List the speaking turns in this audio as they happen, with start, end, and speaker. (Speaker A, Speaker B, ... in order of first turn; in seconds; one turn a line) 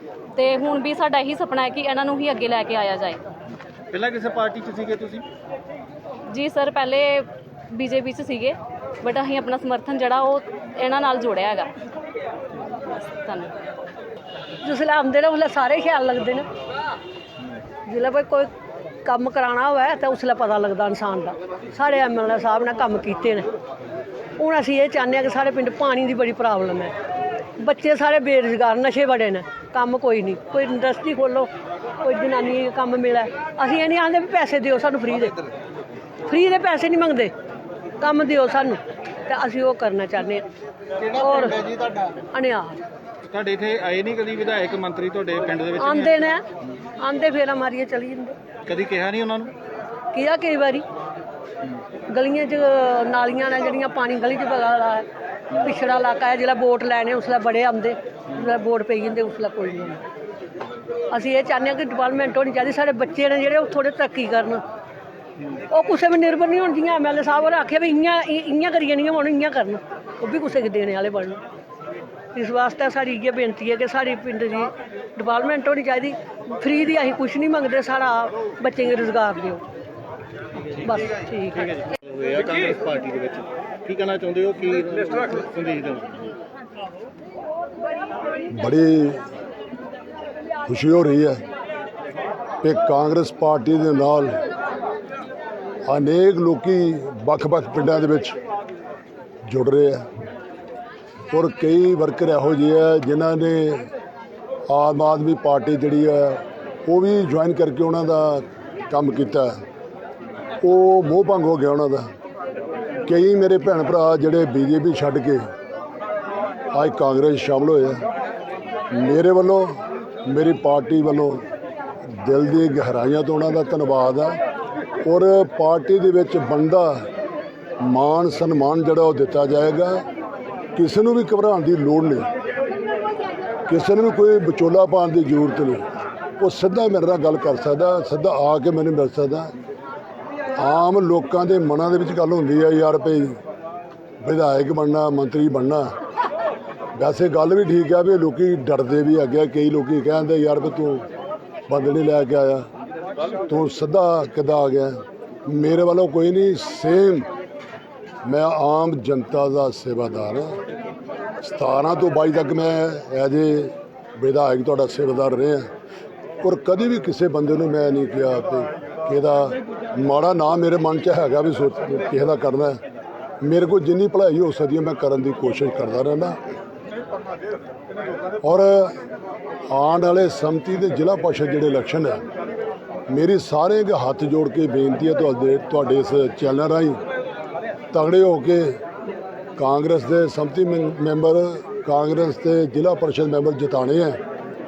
Speaker A: 0.3-3.2
Speaker B: 3.9-5.2
Speaker A: 6.3-11.7
Speaker A: 12.8-13.6
Speaker C: 14.6-16.4
Speaker C: 17.9-18.5
Speaker C: 19.0-23.5
Speaker C: 24.4-26.9
Speaker C: 27.6-31.5
Speaker C: 32.0-35.5
Speaker C: 36.2-37.3
Speaker C: 38.0-40.5
Speaker C: 41.1-41.6
Speaker B: 41.2-42.1
Speaker C: 42.3-42.8
Speaker B: 43.3-46.2
Speaker C: 45.8-46.4
Speaker C: 47.0-48.4
Speaker B: 48.6-49.5
Speaker C: 50.1-50.9
Speaker C: 52.1-60.0
Speaker C: 61.1-64.6
Speaker C: 65.7-71.4
Speaker C: 72.3-79.6
Speaker C: 80.7-81.6
Speaker B: 81.5-86.1
Speaker D: 88.5-89.2
Speaker D: 90.6-91.4
Speaker D: 92.6-94.4
Speaker D: 95.8-98.4
Speaker D: 99.5-100.0
Speaker D: 101.3-103.9
Speaker D: 104.7-109.6
Speaker D: 110.6-112.1
Speaker D: 113.0-115.5
Speaker D: 116.7-118.0
Speaker D: 118.9-121.4
Speaker D: 122.0-124.4
Speaker D: 125.0-127.1
Speaker D: 127.8-130.0
Speaker D: 130.7-132.3
Speaker D: 133.7-135.8
Speaker D: 136.4-139.5
Speaker D: 140.6-143.4
Speaker D: 144.2-145.9
Speaker D: 146.9-151.0
Speaker D: 151.7-152.7
Speaker D: 153.5-157.3
Speaker D: 158.2-160.6
Speaker D: 161.4-165.7
Speaker D: 166.4-172.8
Speaker D: 173.4-176.4
Speaker D: 178.4-179.0
Speaker D: 179.7-182.2
Speaker D: 183.1-187.0
Speaker D: 187.9-188.8
Speaker D: 189.6-194.2